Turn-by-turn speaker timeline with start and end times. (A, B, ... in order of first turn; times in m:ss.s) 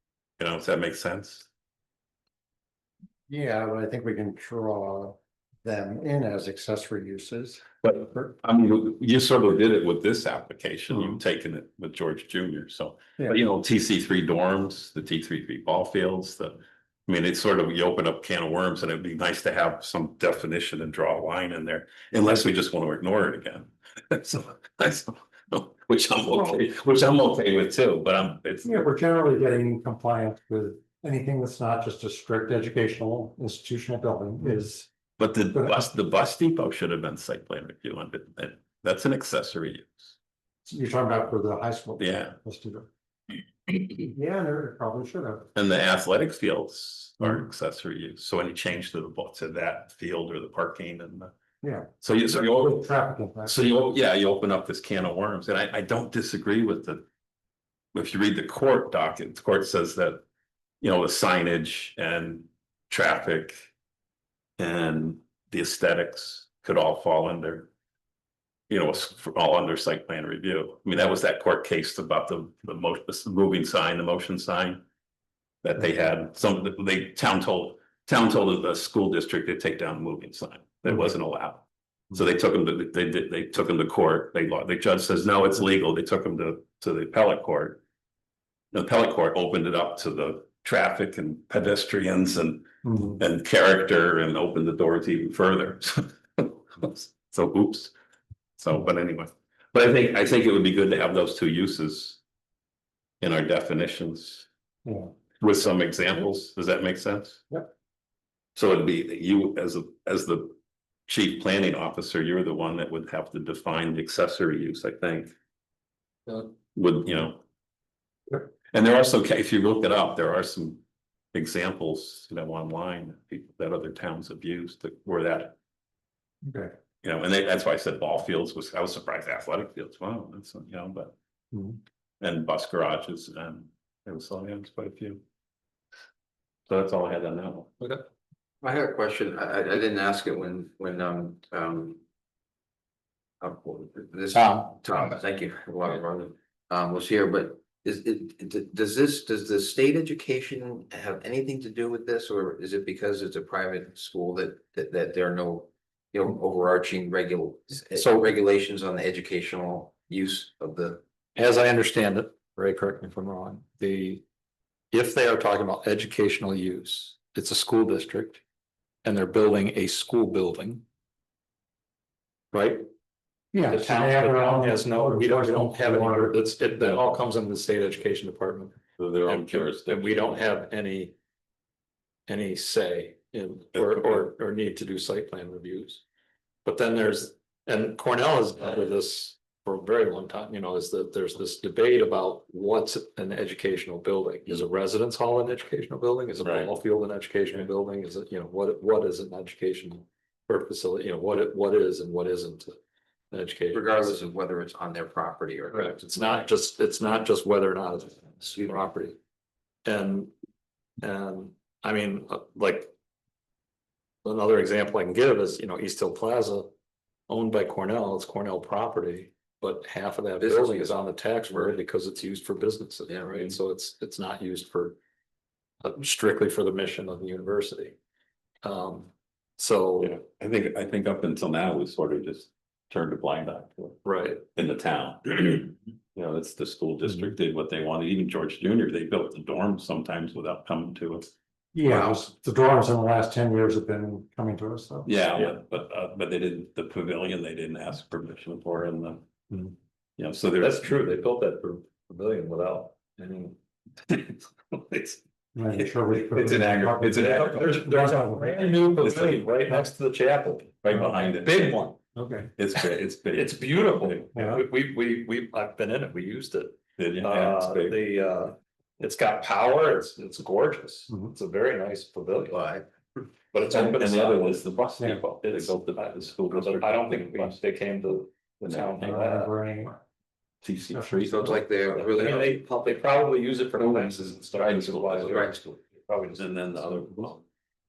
0:00.4-0:01.5 A
0:03.3-0:07.6 B
0:07.8-0:28.8 A
0:28.6-0:34.9 B
0:35.2-0:40.2 A
0:35.5-0:35.8 B
0:40.7-0:42.9 B
0:42.0-0:42.4 A
0:44.1-0:45.5 B
0:45.6-0:51.3 A
0:51.6-0:53.6 B
0:52.0-0:52.9 A
0:53.4-0:57.1 A
0:57.9-1:00.2 A
1:00.8-1:03.7 A
1:04.6-1:07.7 A
1:08.7-1:14.8 A
1:15.6-1:27.8 A
1:28.7-1:37.9 A
1:32.8-1:33.2 B
1:38.6-1:42.2 A
1:43.2-1:44.5 A
1:44.8-1:45.1 B
1:45.4-1:47.4 A
1:48.6-1:50.6 A
1:51.1-1:55.3 A
1:56.8-1:57.4 A
1:58.5-2:00.8 A
2:01.3-2:05.6 A
2:06.4-2:06.7 B
2:07.0-2:11.2 A
2:12.2-2:15.2 A
2:16.7-2:17.8 A
2:18.6-2:22.0 C
2:23.4-2:41.0 C
2:24.3-2:25.2 D
2:37.9-2:38.3 D
2:41.4-2:44.2 D
2:44.9-2:48.4 D
2:49.0-2:50.8 D
2:52.5-2:52.9 D
2:53.5-2:57.1 B
2:53.7-3:01.2 D
2:59.0-3:00.4 A
3:02.3-3:06.0 D
3:03.7-3:04.3 A
3:06.6-3:22.8 D
3:16.4-3:16.7 A
3:23.3-3:24.2 D
3:23.7-3:26.4 C
3:25.7-3:29.2 D
3:29.8-3:30.3 D
3:31.0-3:32.9 D
3:34.2-3:36.7 D
3:37.3-3:45.0 D
3:40.4-3:41.0 C
3:43.1-3:43.6 C
3:45.8-3:48.0 D
3:48.6-3:50.2 D
3:50.0-3:54.0 A
3:54.0-3:54.4 D
3:54.5-4:01.3 A
4:01.7-4:05.1 B
4:05.1-4:09.2 A
4:10.2-4:10.8 A
4:10.6-4:15.2 D
4:15.6-4:18.9 B
4:16.2-4:17.9 A
4:17.0-4:22.0 D
4:19.0-4:19.7 A
4:20.8-4:21.8 A
4:22.2-4:22.5 B
4:22.6-4:24.2 A
4:23.3-4:32.7 D
4:24.4-4:24.6 B
4:27.0-4:28.0 A
4:32.5-4:32.9 C
4:33.5-4:34.6 D
4:33.6-4:37.6 A
4:35.0-4:35.2 B
4:35.4-4:39.6 D
4:38.6-4:39.1 A
4:39.0-4:40.0 B
4:40.6-4:41.5 A
4:40.9-4:41.6 B
4:41.2-4:42.6 C
4:41.9-4:47.4 D
4:43.8-4:45.5 A
4:45.2-4:45.7 C
4:46.3-4:47.4 A